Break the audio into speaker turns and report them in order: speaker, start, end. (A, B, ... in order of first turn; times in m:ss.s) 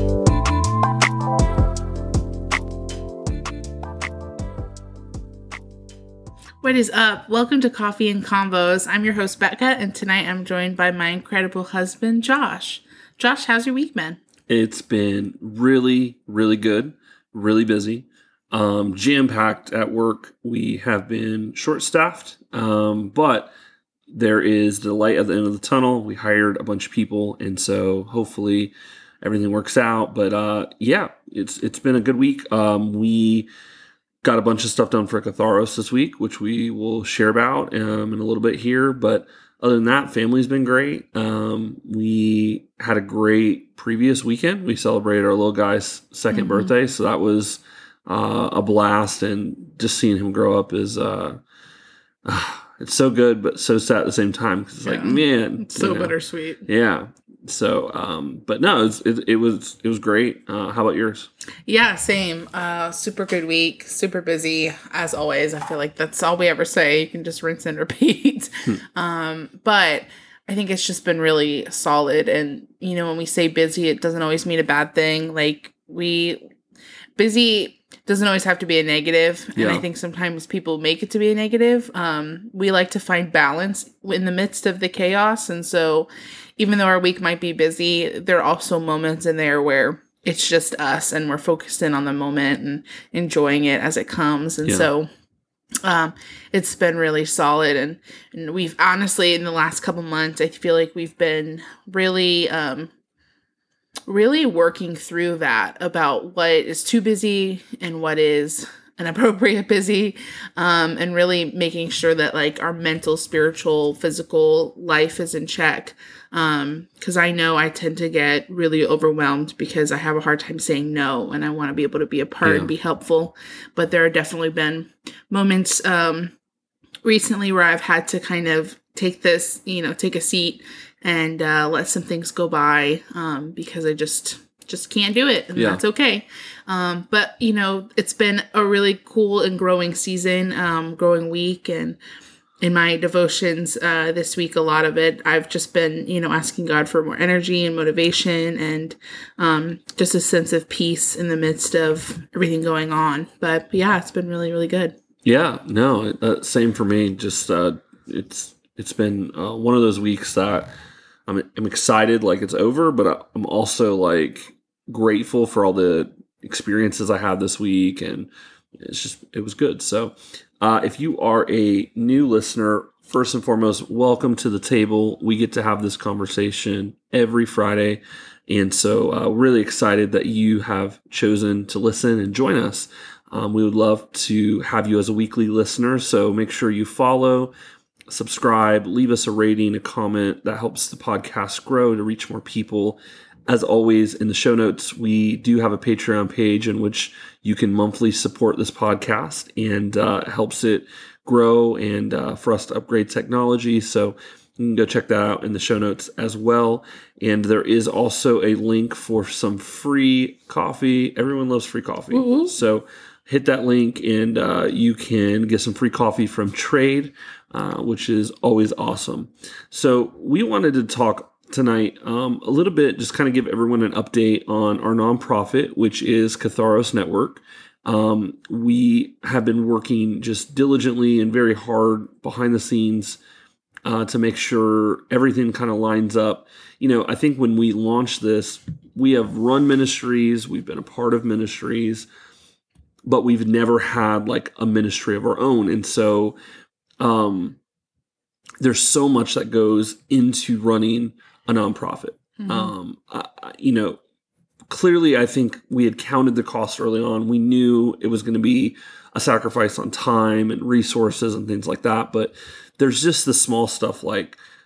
0:06.6-0:14.2 A
0:14.5-0:23.5 B
0:24.1-0:33.5 B
0:34.2-0:51.4 B
0:46.3-0:46.7 A
0:52.2-1:01.3 B
0:54.8-0:56.6 A
1:01.6-1:16.4 A
1:17.2-1:35.1 A
1:19.6-1:19.8 B
1:35.8-1:42.9 A
1:44.1-2:06.3 A
2:02.4-2:02.7 B
2:07.0-2:22.0 A
2:15.5-2:15.8 B
2:22.6-2:34.9 A
2:35.2-2:40.7 B
2:41.3-3:07.5 B
3:08.1-3:53.2 B
3:32.1-3:32.6 A
3:53.8-4:02.1 B
4:03.0-4:06.4 B
4:07.0-4:07.6 B
4:08.6-4:14.0 B
4:12.4-4:12.7 A
4:14.7-4:24.4 B